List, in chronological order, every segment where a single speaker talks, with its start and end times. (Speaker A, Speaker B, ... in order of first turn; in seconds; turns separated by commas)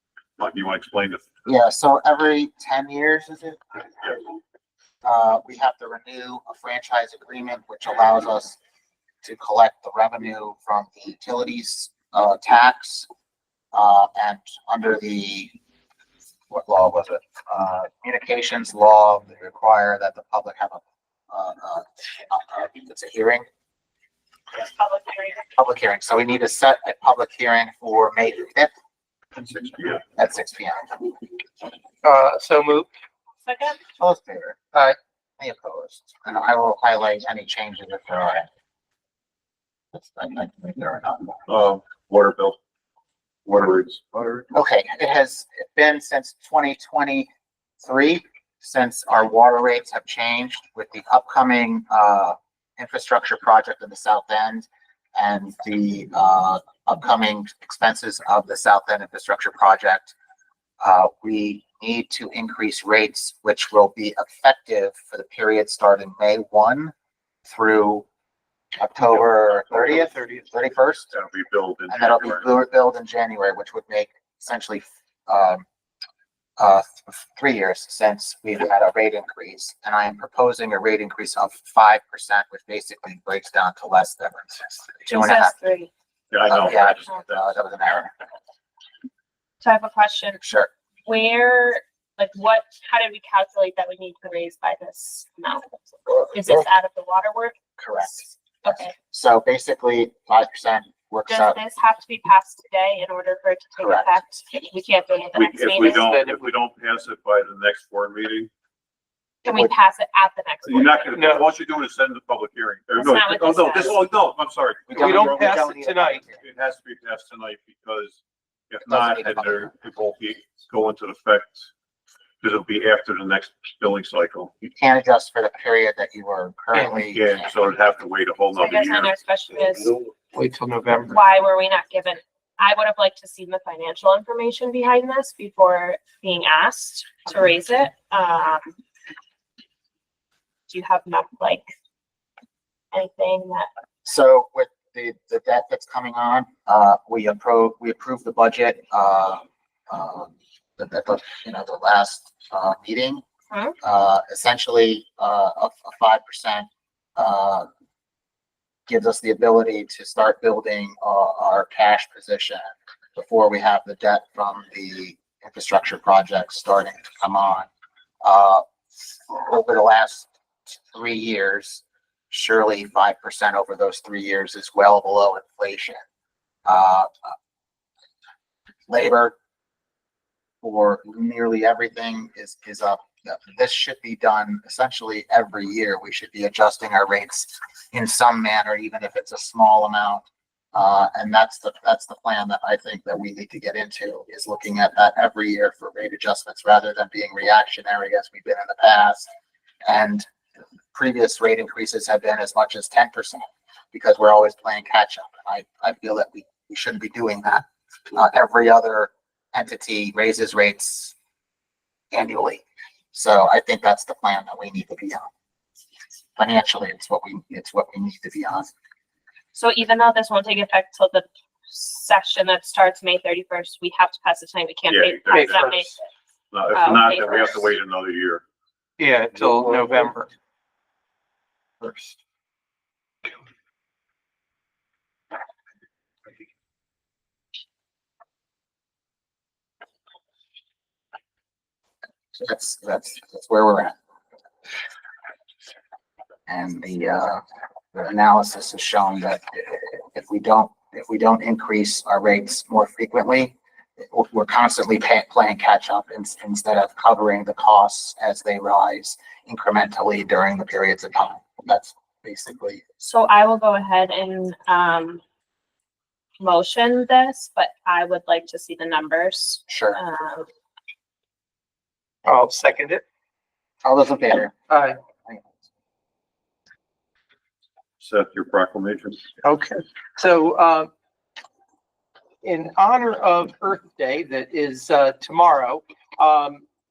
Speaker A: 0.4-1.2, Speaker B: 1.4-3.8, Speaker B: 5.0-8.6, Speaker B: 9.2-13.1, Speaker B: 13.7-15.5, Speaker B: 16.5-23.4, Speaker C: 24.5-25.5, Speaker B: 25.6-28.7, Speaker A: 29.4-30.0, Speaker B: 30.1-31.1, Speaker D: 32.0-32.9, Speaker C: 33.5-33.8, Speaker B: 34.0-34.6, Speaker B: 35.4-38.5, Speaker B: 39.9-41.4, Speaker A: 41.5-42.6, Speaker A: 43.5-44.5, Speaker B: 44.5-47.3, Speaker B: 47.8-60.1, Speaker B: 60.8-66.9, Speaker B: 67.5-68.1, Speaker B: 68.8-71.1, Speaker A: 71.1-72.5, Speaker B: 71.9-75.7, Speaker B: 76.6-85.5, Speaker C: 85.1-85.9, Speaker A: 86.3-87.5, Speaker B: 86.5-88.1, Speaker C: 89.6-90.4, Speaker B: 90.4-90.7, Speaker C: 91.1-97.6, Speaker B: 97.8-101.6, Speaker C: 98.6-99.0, Speaker C: 101.3-106.2, Speaker B: 103.8-104.1, Speaker A: 105.3-108.5, Speaker D: 105.9-106.4, Speaker C: 109.4-111.2, Speaker A: 110.7-118.2, Speaker D: 111.2-111.5, Speaker C: 113.0-114.0, Speaker D: 114.9-116.2, Speaker B: 114.9-116.4, Speaker A: 118.7-121.7, Speaker B: 118.9-119.7, Speaker A: 122.4-124.5, Speaker B: 124.7-127.5, Speaker D: 126.7-127.0, Speaker A: 127.0-129.1, Speaker C: 128.6-129.9, Speaker D: 130.3-131.2, Speaker C: 131.1-138.7, Speaker C: 140.7-141.7, Speaker C: 142.9-143.7, Speaker B: 144.1-153.2, Speaker B: 153.8-157.7, Speaker B: 158.9-167.7, Speaker B: 168.2-176.0, Speaker B: 176.7-177.3, Speaker B: 178.9-179.3, Speaker B: 180.6-199.3, Speaker B: 199.8-200.3, Speaker B: 200.9-211.1, Speaker B: 212.1-215.3, Speaker B: 216.4-218.7, Speaker C: 219.5-226.0, Speaker A: 224.9-225.7, Speaker D: 225.3-225.9, Speaker A: 226.5-228.4, Speaker C: 226.7-227.7, Speaker D: 229.0-230.3, Speaker D: 231.8-232.1, Speaker B: 242.3-243.9, Speaker B: 246.5-262.8, Speaker C: 263.0-265.2, Speaker C: 266.4-270.5, Speaker B: 269.7-270.0, Speaker D: 272.2-273.0, Speaker B: 273.8-274.5, Speaker D: 274.7-275.0, Speaker A: 278.0-279.2, Speaker D: 279.4-280.9, Speaker D: 282.4-286.6